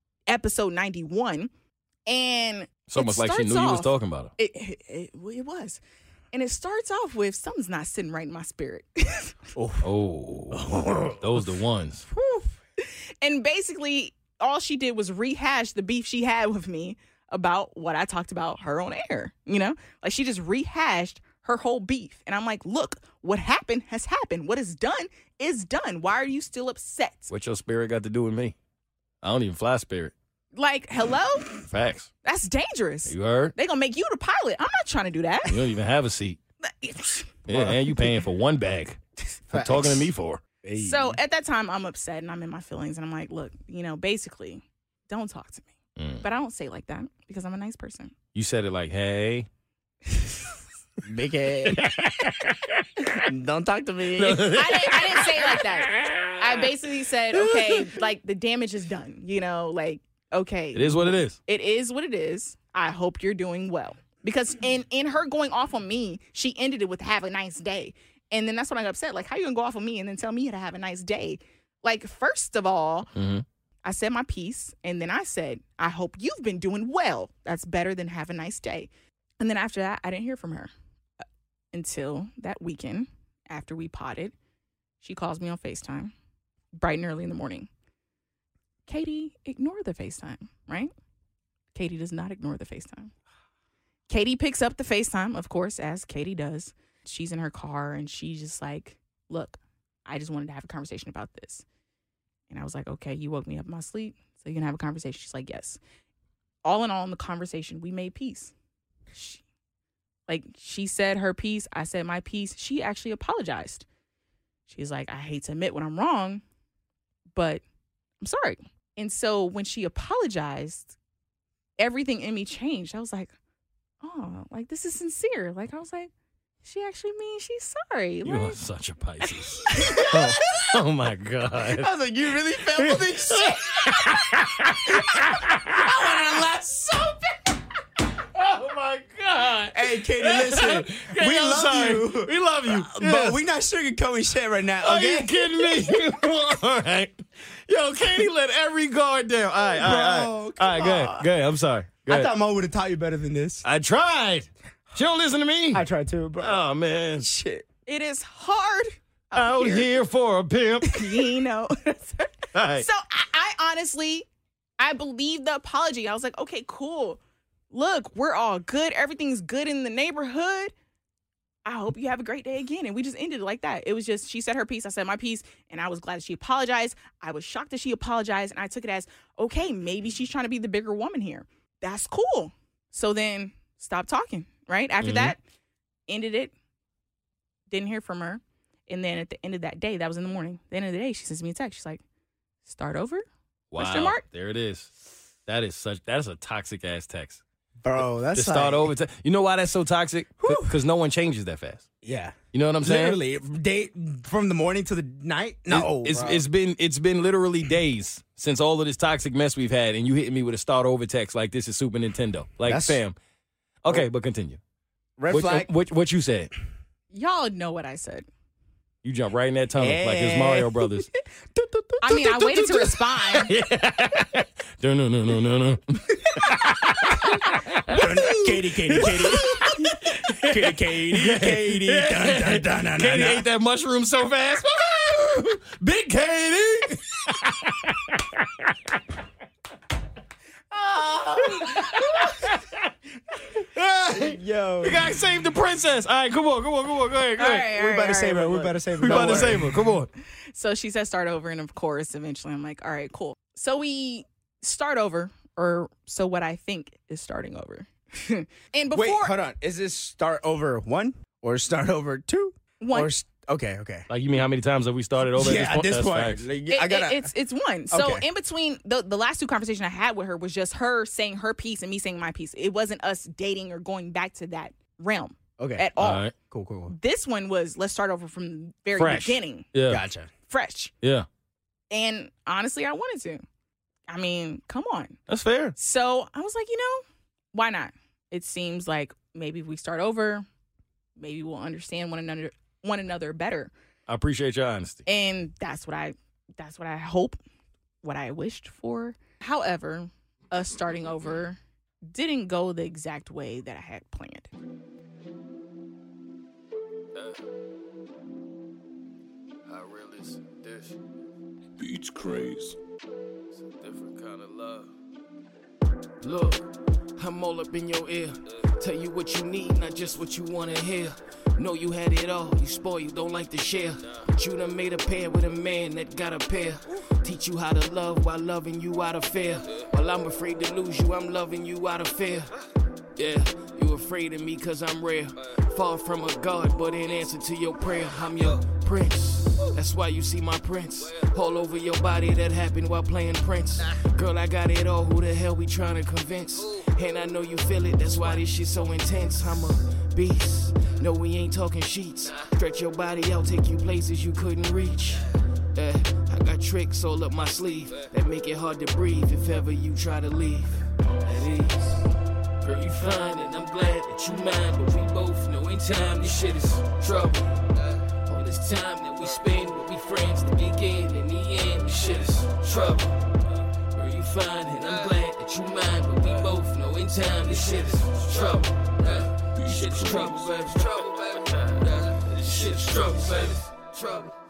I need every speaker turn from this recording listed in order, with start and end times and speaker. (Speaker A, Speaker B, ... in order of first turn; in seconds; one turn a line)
Speaker A: 0.3-1.5
Speaker A: 2.1-5.8
Speaker B: 2.9-4.3
Speaker A: 6.3-9.4
Speaker C: 9.6-9.8
Speaker B: 9.8-12.1
Speaker C: 10.5-11.3
Speaker A: 12.1-27.3
Speaker B: 27.3-28.5
Speaker B: 29.2-30.1
Speaker A: 30.5-31.6
Speaker B: 31.7-32.1
Speaker A: 32.2-35.6
Speaker B: 33.0-33.5
Speaker B: 35.5-36.4
Speaker A: 36.6-37.4
Speaker B: 37.5-39.0
Speaker C: 37.5-37.8
Speaker C: 39.5-40.1
Speaker B: 39.5-40.4
Speaker C: 40.6-41.2
Speaker A: 40.8-45.7
Speaker B: 46.0-46.2
Speaker A: 46.2-48.1
Speaker B: 48.3-49.5
Speaker C: 51.0-52.1
Speaker B: 51.8-52.6
Speaker C: 53.0-55.1
Speaker B: 54.2-55.2
Speaker A: 54.5-73.1
Speaker C: 57.4-57.7
Speaker B: 60.7-61.4
Speaker B: 73.1-73.4
Speaker A: 73.8-78.9
Speaker A: 79.4-80.7
Speaker A: 81.7-84.3
Speaker A: 85.0-86.1
Speaker A: 86.8-87.7
Speaker A: 88.9-90.9
Speaker A: 91.7-93.1
Speaker A: 94.1-101.6
Speaker A: 102.5-105.8
Speaker A: 106.6-108.5
Speaker A: 109.1-109.4
Speaker A: 110.3-113.8
Speaker A: 114.7-116.4
Speaker A: 117.3-117.6
Speaker A: 118.2-120.9
Speaker A: 121.8-123.3
Speaker A: 124.0-126.1
Speaker A: 126.6-128.6
Speaker B: 128.2-131.9
Speaker A: 129.7-130.6
Speaker C: 131.6-133.9
Speaker B: 132.8-135.8
Speaker C: 135.7-137.5
Speaker B: 138.3-143.4
Speaker C: 139.7-145.9
Speaker B: 144.8-152.3
Speaker C: 149.6-151.3
Speaker C: 152.1-153.6
Speaker B: 153.6-155.8
Speaker C: 155.7-156.6
Speaker B: 156.4-157.3
Speaker C: 157.2-157.7
Speaker A: 157.9-159.9
Speaker B: 159.3-161.0
Speaker A: 160.8-164.2
Speaker B: 162.5-162.8
Speaker A: 164.8-167.2
Speaker A: 167.7-170.7
Speaker A: 171.6-185.4
Speaker B: 185.0-185.3
Speaker A: 186.1-186.5
Speaker A: 187.7-192.0
Speaker A: 192.7-193.2
Speaker B: 193.7-194.9
Speaker A: 193.8-194.2
Speaker B: 195.4-197.4
Speaker C: 197.8-198.9
Speaker B: 198.0-201.8
Speaker C: 200.4-200.8
Speaker C: 202.0-206.4
Speaker B: 202.5-203.2
Speaker B: 205.7-213.2
Speaker C: 212.6-213.0
Speaker B: 213.8-214.6
Speaker C: 215.2-215.7
Speaker B: 215.3-216.5
Speaker A: 217.1-218.3
Speaker B: 219.0-221.1
Speaker C: 219.8-222.2
Speaker A: 222.0-223.5
Speaker B: 222.1-228.0
Speaker C: 227.9-229.8
Speaker A: 227.9-229.9
Speaker B: 228.9-229.4
Speaker B: 229.9-238.7
Speaker C: 230.5-233.5
Speaker C: 240.7-242.3
Speaker B: 241.6-242.8
Speaker B: 243.5-247.7
Speaker C: 244.2-245.0
Speaker A: 247.4-249.6
Speaker C: 247.7-249.9
Speaker B: 249.0-250.1
Speaker A: 250.5-259.4
Speaker C: 258.9-264.1
Speaker A: 262.8-263.1
Speaker B: 264.1-266.4
Speaker C: 265.3-267.3
Speaker A: 266.7-276.2
Speaker C: 267.9-268.2
Speaker C: 275.6-276.9
Speaker B: 276.0-276.3
Speaker A: 276.9-279.7
Speaker B: 278.9-280.0
Speaker C: 279.9-280.3
Speaker A: 280.5-280.9
Speaker A: 281.9-283.4
Speaker A: 284.1-285.2
Speaker B: 285.3-285.7
Speaker A: 285.8-290.4
Speaker A: 291.2-293.7
Speaker B: 294.1-295.0
Speaker A: 295.1-297.4
Speaker A: 298.0-301.6
Speaker A: 302.1-304.5
Speaker B: 309.7-310.9
Speaker B: 313.8-314.9
Speaker D: 316.2-332.5
Speaker D: 333.2-362.0
Speaker D: 362.6-373.2
Speaker D: 373.9-384.3